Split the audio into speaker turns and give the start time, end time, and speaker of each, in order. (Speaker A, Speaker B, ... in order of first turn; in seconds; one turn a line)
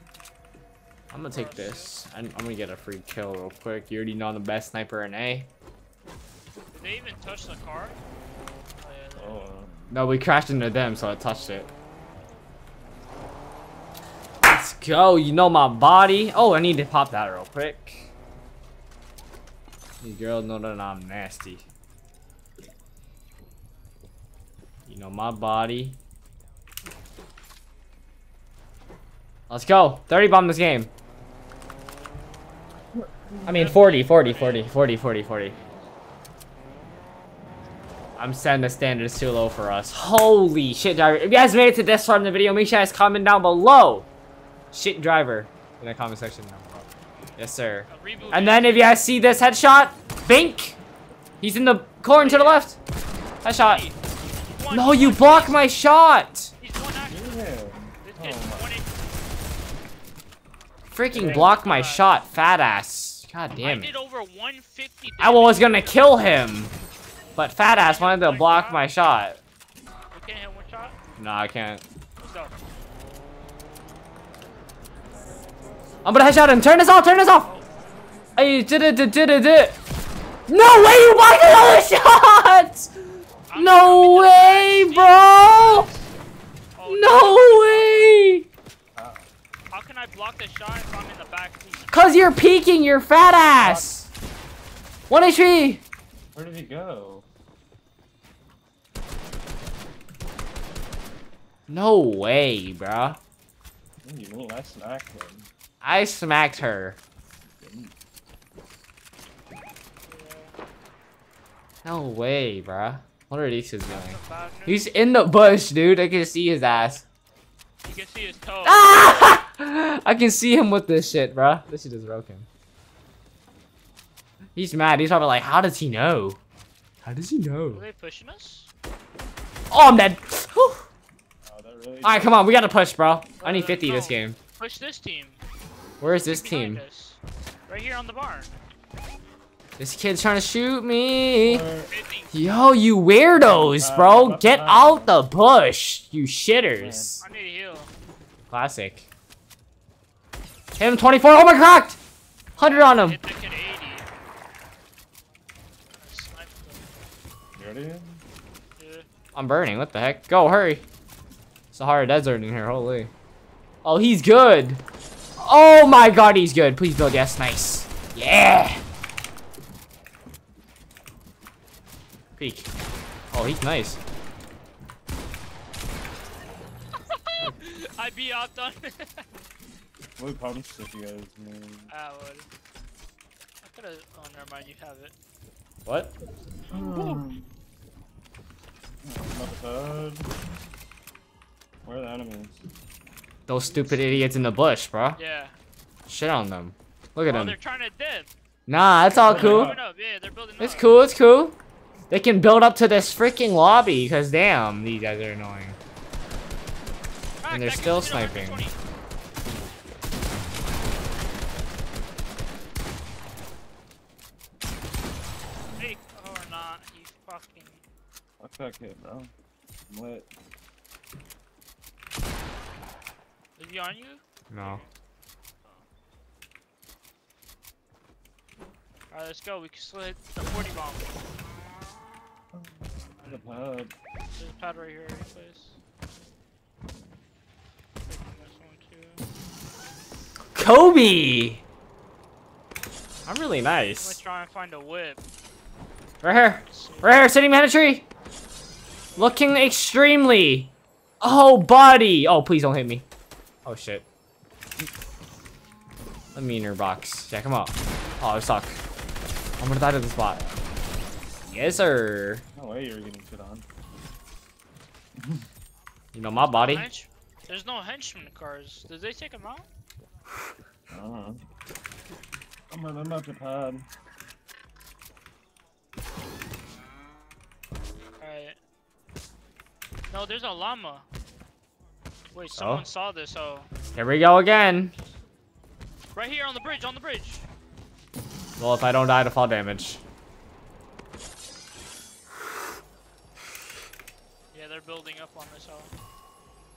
Speaker A: 1.1-5.5
Speaker B: 1.3-1.9
Speaker B: 6.7-8.0
Speaker B: 8.8-9.5
Speaker C: 9.2-9.9
Speaker A: 9.9-11.7
Speaker A: 14.4-18.0
Speaker A: 20.0-21.6
Speaker A: 24.9-26.0
Speaker A: 29.5-30.9
Speaker C: 33.3-33.7
Speaker A: 33.4-35.5
Speaker B: 33.5-34.8
Speaker B: 35.4-35.9
Speaker A: 38.2-44.1
Speaker A: 44.7-50.8
Speaker B: 47.9-49.0
Speaker C: 48.2-48.5
Speaker A: 51.4-52.8
Speaker B: 52.1-52.7
Speaker A: 53.4-53.8
Speaker B: 53.5-55.6
Speaker A: 54.7-56.5
Speaker B: 56.6-57.4
Speaker C: 57.0-58.7
Speaker B: 58.0-58.9
Speaker A: 60.9-63.9
Speaker C: 61.1-61.6
Speaker B: 61.3-62.1
Speaker B: 63.6-66.2
Speaker A: 65.2-66.7
Speaker A: 67.3-69.4
Speaker B: 67.6-68.8
Speaker B: 70.1-71.0
Speaker A: 71.2-71.8
Speaker B: 72.2-72.6
Speaker A: 76.0-77.5
Speaker B: 77.4-77.7
Speaker A: 78.3-79.8
Speaker A: 80.5-85.9
Speaker B: 83.5-86.1
Speaker B: 86.7-88.2
Speaker A: 86.9-88.4
Speaker C: 88.9-89.3
Speaker B: 89.7-91.9
Speaker A: 91.9-94.0
Speaker C: 93.6-94.0
Speaker A: 95.1-95.8
Speaker C: 96.3-97.2
Speaker A: 101.7-103.2
Speaker C: 104.0-105.5
Speaker A: 105.8-107.0
Speaker C: 107.6-107.9
Speaker B: 110.1-110.5
Speaker A: 111.8-117.0
Speaker B: 113.9-114.8
Speaker B: 116.7-117.0
Speaker B: 117.8-119.2
Speaker A: 118.6-122.5
Speaker A: 124.5-126.4
Speaker A: 127.0-127.8
Speaker B: 127.7-128.7
Speaker A: 129.7-130.8
Speaker C: 131.4-132.4
Speaker A: 132.0-134.4
Speaker B: 133.4-135.4
Speaker A: 136.0-136.8
Speaker B: 136.0-138.5
Speaker A: 139.8-141.7
Speaker C: 141.4-141.9
Speaker B: 141.9-142.3
Speaker A: 142.3-147.2
Speaker C: 143.3-145.2
Speaker C: 146.7-147.1
Speaker B: 147.2-147.9
Speaker A: 148.5-149.1
Speaker A: 150.8-152.0
Speaker B: 152.6-154.1
Speaker A: 152.6-153.2
Speaker B: 155.9-156.8
Speaker C: 157.6-158.2
Speaker B: 158.8-159.1
Speaker A: 159.3-160.8
Speaker A: 161.7-163.1
Speaker A: 163.8-164.8
Speaker A: 165.4-168.8
Speaker A: 172.4-172.7
Speaker A: 173.3-174.0
Speaker B: 177.1-179.2
Speaker C: 180.2-181.9
Speaker B: 181.9-182.5
Speaker B: 183.6-185.1
Speaker A: 185.8-186.1
Speaker B: 186.7-187.2
Speaker C: 186.7-187.4
Speaker C: 189.0-190.3
Speaker C: 191.8-192.6
Speaker A: 193.5-195.2
Speaker C: 193.8-194.2
Speaker B: 195.2-195.5
Speaker A: 196.1-197.6
Speaker B: 197.2-198.3
Speaker A: 198.7-199.8
Speaker C: 199.2-199.8
Speaker B: 199.2-200.9
Speaker A: 200.6-201.6
Speaker A: 202.1-205.8
Speaker B: 207.4-208.8
Speaker A: 207.5-208.6
Speaker B: 215.8-217.8
Speaker C: 218.4-219.3
Speaker C: 219.9-220.3
Speaker B: 223.6-224.9
Speaker A: 224.5-224.8
Speaker B: 229.1-231.1
Speaker C: 232.5-233.9
Speaker B: 233.2-233.5
Speaker B: 234.3-235.8
Speaker B: 238.1-239.2
Speaker A: 240.5-241.6
Speaker A: 243.2-244.2
Speaker B: 243.8-245.2
Speaker A: 246.2-248.0
Speaker B: 246.7-247.3
Speaker B: 249.1-249.6
Speaker A: 249.2-253.0
Speaker A: 253.6-254.0
Speaker A: 256.3-258.8
Speaker A: 259.6-260.4
Speaker C: 260.3-260.6
Speaker A: 261.4-262.4
Speaker C: 262.6-263.6
Speaker C: 265.2-265.4
Speaker A: 266.1-266.9
Speaker B: 266.5-269.7
Speaker C: 270.9-271.4
Speaker C: 272.7-273.9
Speaker B: 278.2-278.6
Speaker B: 280.1-281.1
Speaker B: 282.3-283.7
Speaker A: 282.5-282.8
Speaker A: 283.9-284.9
Speaker B: 286.1-287.5
Speaker A: 288.6-290.0
Speaker B: 294.5-295.9